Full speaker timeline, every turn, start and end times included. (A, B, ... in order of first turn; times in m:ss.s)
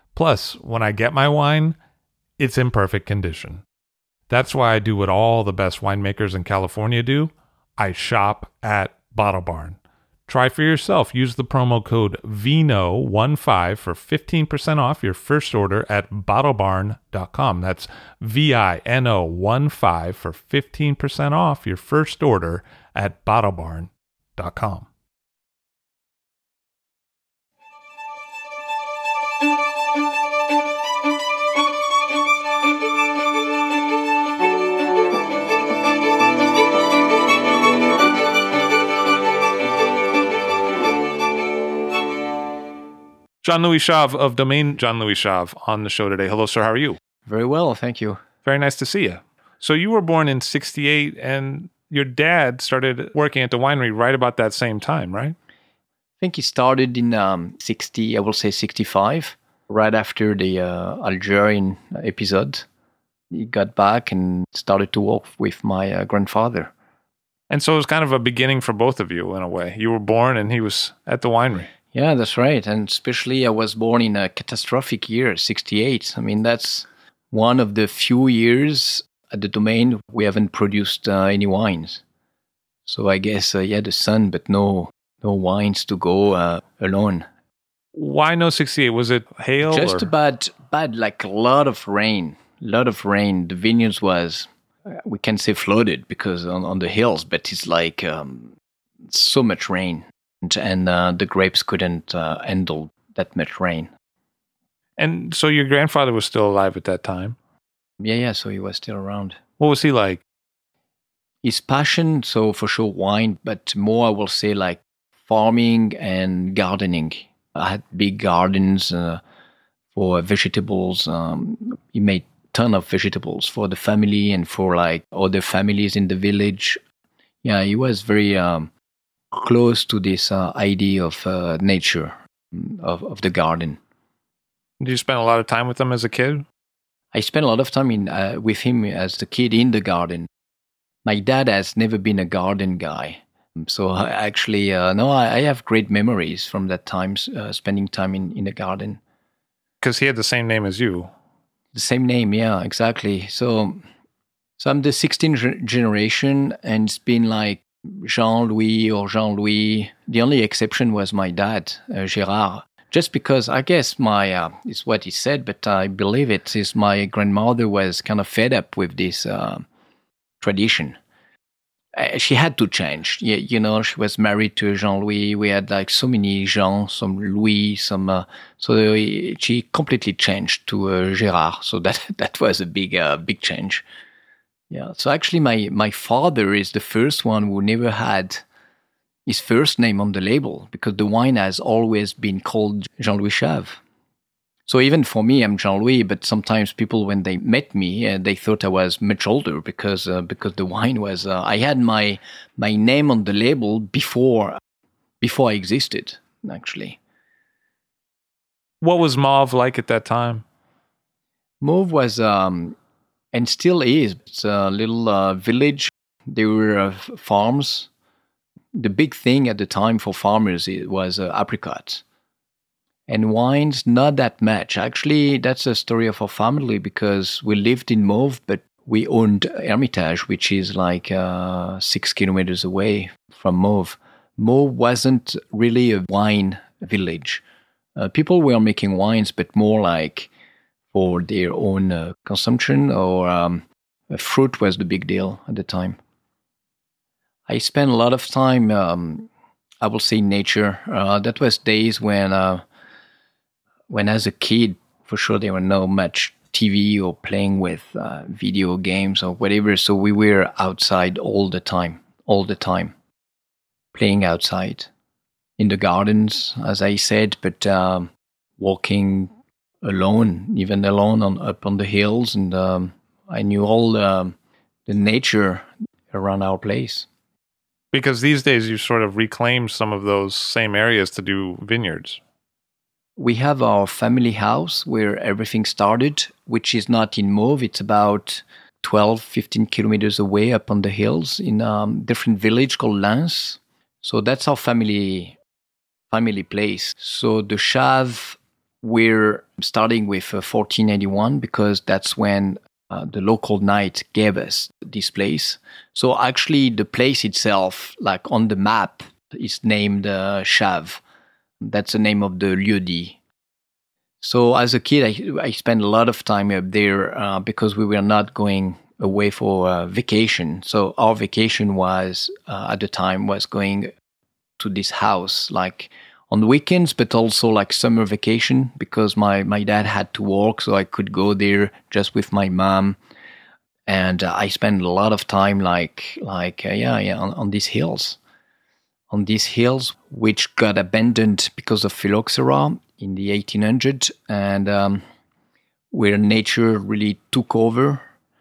0:00.2-0:01.7 A
0:02.4-0:03.6 A
0:04.3-0:09.8 A
0:10.3-0:24.8 A
0:43.4-0:47.0 B
0:47.2-0:48.2 C
0:48.4-0:55.4 B
0:56.2-1:02.6 C
1:03.3-1:06.7 C
1:07.5-1:11.7 B
1:11.9-1:22.0 C
1:22.8-1:27.2 C
1:27.9-1:30.1 B
1:29.6-1:38.5 C
1:39.1-1:43.9 C
1:45.0-1:47.4 B
1:48.0-1:49.4 C
1:49.6-1:50.2 B
1:51.4-1:59.2 C
1:59.9-2:06.8 C
2:07.4-2:08.7 C
2:09.3-2:13.8 C
2:14.8-2:16.4 B
2:17.1-2:20.3 C
2:21.0-2:29.0 C
2:29.8-2:31.1 B
2:31.7-2:33.8 C
2:34.6-2:49.6 C
2:50.4-2:51.0 C
2:51.9-3:03.8 C
3:04.7-3:08.4 C
3:09.2-3:13.8 C
3:14.6-3:24.6 C
3:25.2-3:27.0 C
3:28.8-3:30.4 B
3:31.6-3:32.8 C
3:33.3-3:37.9 C
3:38.7-3:42.0 C
3:43.1-3:57.4 C
3:58.0-4:00.3 C
4:00.9-4:06.0 C
4:07.5-4:09.3 C
4:09.8-4:12.6 C
4:13.9-4:22.9 C
4:23.9-4:24.9 C
4:25.6-4:29.3 C
4:29.8-4:34.4 C
4:34.9-4:37.1 C
4:37.9-4:42.2 B
4:43.2-4:55.4 C
4:56.1-5:11.0 C
5:11.6-5:13.2 C
5:14.2-5:23.9 C
5:24.6-5:33.0 C
5:33.9-5:38.2 C
5:39.1-5:45.0 C
5:45.9-5:48.0 C